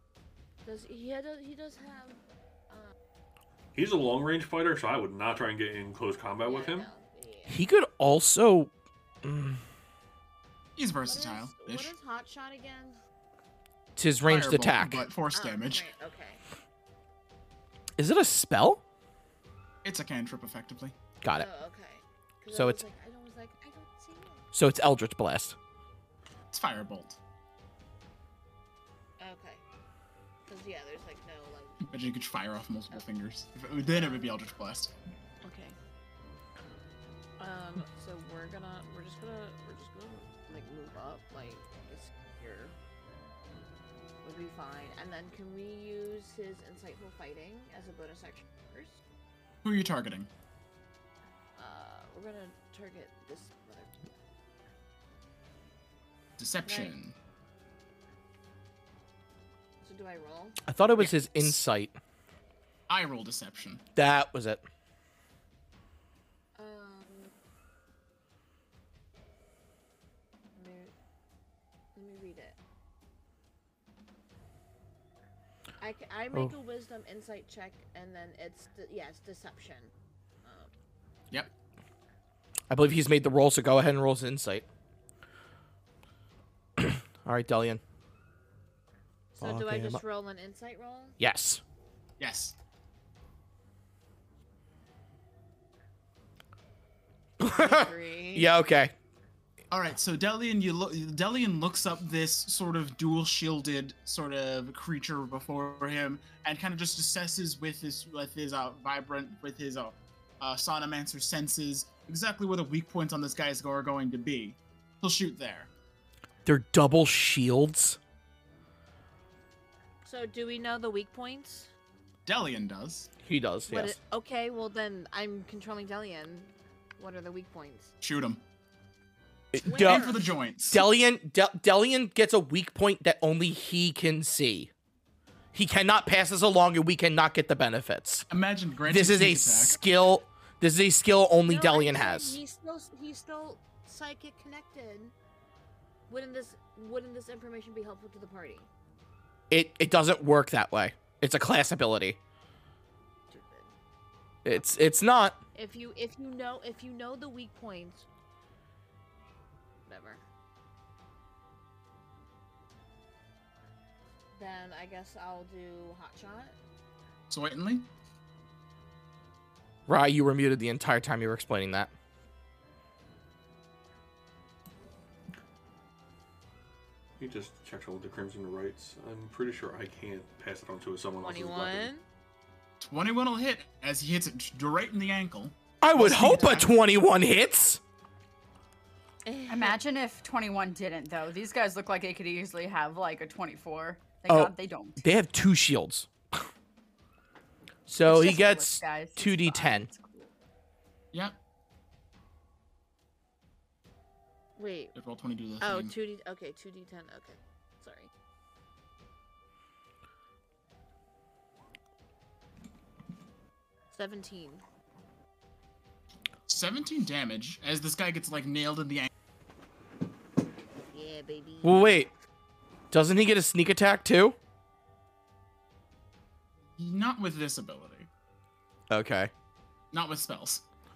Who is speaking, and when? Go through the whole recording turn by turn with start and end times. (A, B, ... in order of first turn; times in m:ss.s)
0:00.6-0:02.9 A
0:03.8-0:06.9 B
0:06.4-0:07.6 A
0:07.5-0:08.7 C
0:09.2-0:09.6 C
0:10.8-0:11.9 D
0:11.0-0:13.0 A
0:14.0-0:15.1 C
0:14.3-0:15.9 D
0:15.3-0:16.4 A
0:18.0-0:18.8 C
0:19.8-0:21.0 D
0:21.2-0:21.5 C
0:21.3-0:24.4 A
0:22.5-0:22.8 C
0:24.5-0:25.6 C
0:26.5-0:27.2 D
0:29.2-0:29.6 A
0:30.5-0:32.0 A
0:31.9-0:34.9 D
0:33.8-0:34.3 A
0:35.4-0:35.8 A
0:37.4-0:42.8 A
0:44.2-0:49.0 A
0:49.6-0:50.3 D
0:51.6-0:54.1 A
0:56.4-0:57.2 D
0:56.6-0:57.0 A
0:59.8-1:00.6 A
1:00.6-1:02.0 C
1:01.0-1:01.6 D
1:02.9-1:03.8 D
1:04.0-1:04.6 C
1:06.6-1:07.3 A
1:10.6-1:10.9 A
1:12.0-1:12.6 A
1:15.8-1:19.9 A
1:20.4-1:20.7 A
1:22.7-1:24.7 C
1:26.8-1:27.8 C
1:29.3-1:31.2 A
1:29.4-1:30.0 C
1:31.2-1:31.6 C
1:32.2-1:32.6 D
1:37.4-1:38.9 C
1:37.4-1:38.5 A
1:39.7-1:55.7 D
1:56.4-1:58.0 C
2:00.0-2:01.7 A
2:02.3-2:03.1 D
2:03.2-2:04.0 C
2:03.7-2:07.9 A
2:08.0-2:08.4 D
2:09.5-2:10.2 C
2:09.6-2:10.4 A
2:09.7-2:10.9 D
2:10.7-2:14.7 C
2:15.5-2:18.3 C
2:18.3-2:19.8 D
2:18.9-2:22.4 C
2:21.5-2:25.1 A
2:26.1-2:28.7 A
2:29.5-2:32.2 C
2:33.3-2:33.7 A
2:34.4-2:35.4 C
2:35.5-2:38.1 A
2:39.9-2:40.2 A
2:44.3-2:46.6 A
2:47.3-2:47.9 D
2:49.9-2:51.9 C
2:57.2-3:01.9 B
3:01.2-3:02.0 A
3:02.8-3:06.7 D
3:05.8-3:07.8 C
3:09.2-3:09.8 A
3:09.5-3:15.0 E
3:14.3-3:16.4 C
3:17.9-3:19.9 C
3:18.0-3:20.3 E
3:21.1-3:21.4 D
3:24.6-3:25.0 A
3:25.0-3:26.0 D
3:25.6-3:28.1 A
3:33.9-3:34.6 A
3:36.5-3:39.1 D
3:40.9-3:41.8 A
3:41.6-3:42.1 C
3:42.9-3:44.4 C
3:46.8-3:48.1 D
3:48.9-3:49.3 C
3:49.9-3:50.6 D